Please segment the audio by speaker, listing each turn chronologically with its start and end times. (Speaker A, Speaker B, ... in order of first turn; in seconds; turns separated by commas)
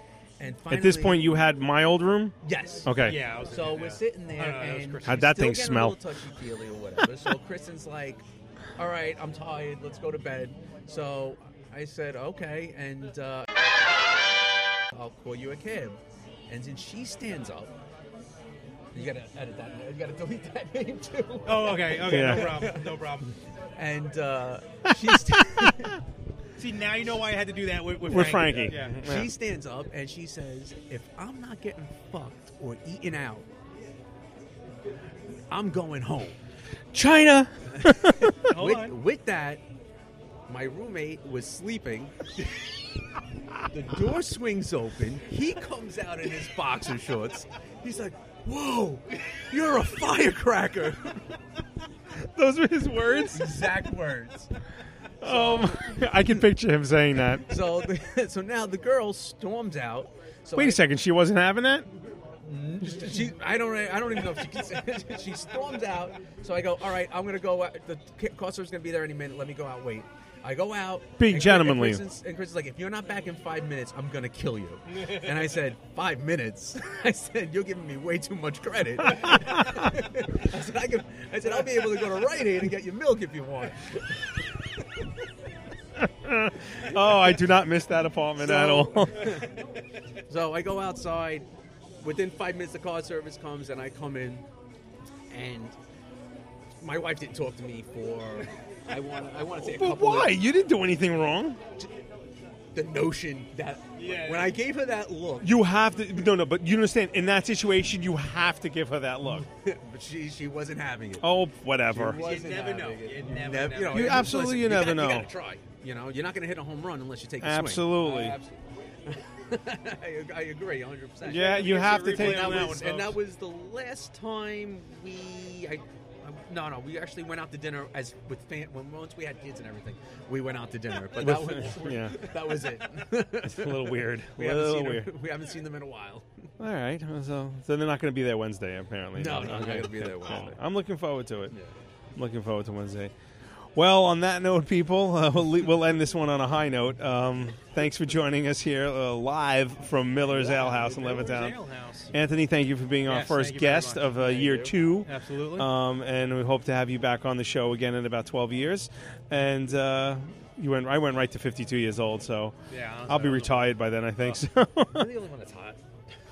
Speaker A: 0.4-1.3, Speaker B: 0.7-3.2, Speaker A: 2.4-8.2, Speaker C: 3.0-5.4, Speaker B: 5.0-6.0, Speaker A: 8.8-13.5, Speaker A: 14.9-17.7, Speaker A: 18.9-23.1, Speaker C: 21.5-23.3, Speaker B: 22.1-22.7, Speaker A: 23.8-26.0, Speaker C: 26.6-29.0, Speaker B: 28.0-29.3, Speaker A: 28.3-33.5, Speaker A: 35.5-36.4, Speaker B: 36.9-38.3, Speaker A: 37.7-39.6, Speaker C: 38.5-39.0, Speaker A: 40.5-42.3, Speaker A: 43.7-51.3, Speaker B: 52.2-53.6, Speaker A: 53.3-54.5, Speaker A: 55.2-56.2, Speaker B: 55.2-57.5, Speaker A: 57.5-60.8, Speaker B: 60.5-61.9, Speaker A: 62.4-84.2, Speaker B: 71.2-72.0, Speaker B: 79.3-79.6, Speaker B: 86.0-89.4, Speaker A: 88.4-89.5, Speaker A: 90.3-91.5, Speaker A: 92.0-94.5, Speaker A: 95.3-95.8, Speaker A: 96.8-100.4, Speaker B: 99.6-101.6, Speaker A: 102.7-105.5, Speaker C: 104.0-104.5, Speaker B: 105.4-109.5, Speaker A: 109.2-111.3, Speaker B: 111.2-112.2, Speaker A: 111.9-136.4, Speaker C: 112.1-114.3, Speaker B: 113.9-115.3, Speaker B: 117.4-118.4, Speaker B: 121.2-122.8, Speaker C: 121.3-123.2, Speaker B: 131.1-132.3, Speaker B: 133.3-135.1, Speaker B: 136.6-141.5, Speaker A: 139.2-140.6, Speaker B: 142.2-143.1, Speaker B: 143.8-151.6, Speaker A: 150.3-151.5, Speaker C: 150.6-152.1, Speaker B: 152.1-162.6, Speaker C: 153.1-155.7, Speaker A: 154.3-154.6, Speaker C: 162.7-164.4, Speaker B: 163.1-165.1, Speaker A: 164.9-165.8